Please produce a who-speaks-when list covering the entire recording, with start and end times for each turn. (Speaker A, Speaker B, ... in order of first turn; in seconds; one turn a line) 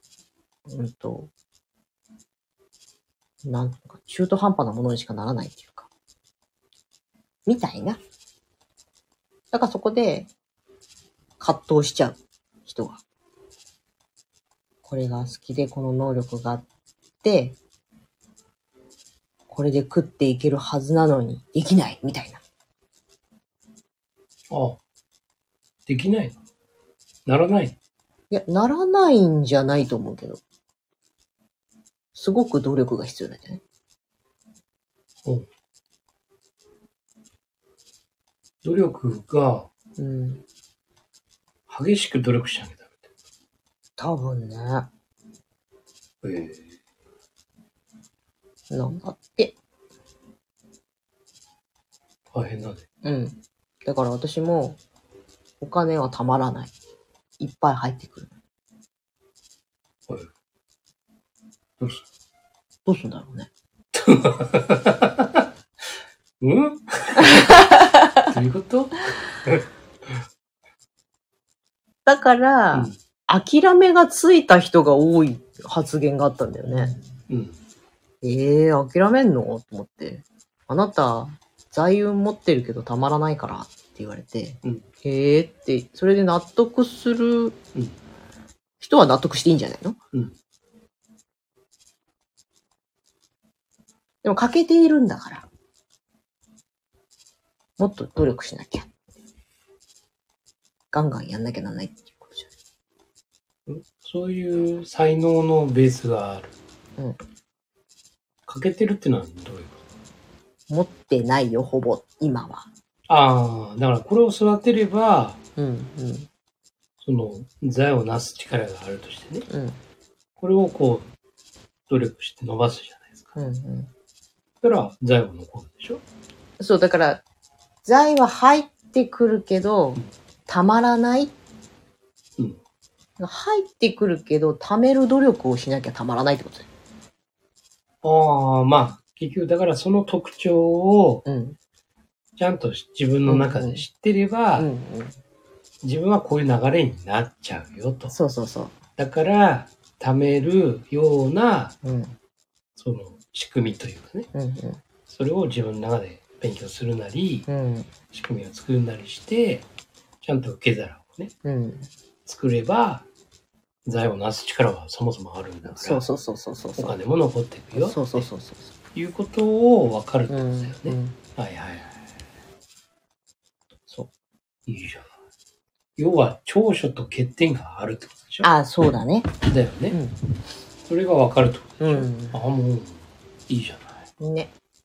Speaker A: 0.7-1.3
Speaker A: 3.4-5.9
Speaker A: 7.5-8.0
Speaker A: 9.5-10.3
Speaker A: 11.4-13.0
Speaker A: 14.8-16.6
Speaker A: 17.2-17.6
Speaker A: 19.5-22.4
Speaker B: 24.5-24.8
Speaker B: 25.9-26.4
Speaker B: 27.2-27.8
Speaker A: 28.3-30.4
Speaker A: 32.1-33.6
Speaker B: 38.6-39.7
Speaker A: 40.0-40.4
Speaker B: 41.7-43.1
Speaker A: 44.0-44.9
Speaker B: 46.2-46.7
Speaker A: 48.7-49.6
Speaker B: 52.3-52.8
Speaker A: 53.0-54.8
Speaker A: 55.6-56.7
Speaker A: 57.4-58.4
Speaker A: 62.9-63.5
Speaker B: 63.9-65.5
Speaker B: 66.4-67.6
Speaker A: 67.2-68.0
Speaker B: 68.2-69.7
Speaker A: 72.0-77.0
Speaker B: 77.3-77.6
Speaker A: 78.2-87.6
Speaker A: 88.8-90.0
Speaker A: 94.2-95.5
Speaker A: 97.8-98.9
Speaker A: 100.9-102.5
Speaker B: 103.7-106.5
Speaker B: 108.5-109.8
Speaker A: 110.7-112.7
Speaker B: 113.1-115.4
Speaker A: 115.6-116.3
Speaker B: 117.0-119.5
Speaker A: 119.5-119.8
Speaker B: 120.4-121.1
Speaker B: 121.9-123.3
Speaker A: 123.3-123.9
Speaker B: 124.6-126.0
Speaker A: 126.6-127.2
Speaker A: 127.8-131.3
Speaker A: 133.2-136.7
Speaker B: 138.0-141.2
Speaker A: 141.2-141.6
Speaker B: 142.4-144.7
Speaker A: 143.2-143.8
Speaker A: 144.6-145.2
Speaker B: 145.8-148.2
Speaker A: 148.1-148.8
Speaker B: 149.0-151.8
Speaker A: 151.8-152.2
Speaker B: 152.8-154.3
Speaker A: 154.3-154.8
Speaker B: 155.1-157.5
Speaker A: 157.5-157.9
Speaker B: 158.1-159.7
Speaker B: 160.2-161.3
Speaker A: 161.4-161.9
Speaker B: 162.2-163.1
Speaker B: 163.8-166.1
Speaker A: 165.7-167.0
Speaker B: 166.8-168.3
Speaker A: 167.7-168.7
Speaker B: 168.9-172.0
Speaker A: 170.3-171.2
Speaker B: 174.7-175.1
Speaker B: 176.0-178.5
Speaker A: 178.4-180.2
Speaker B: 179.4-180.0
Speaker B: 180.9-184.0
Speaker A: 181.8-182.4
Speaker A: 184.2-184.5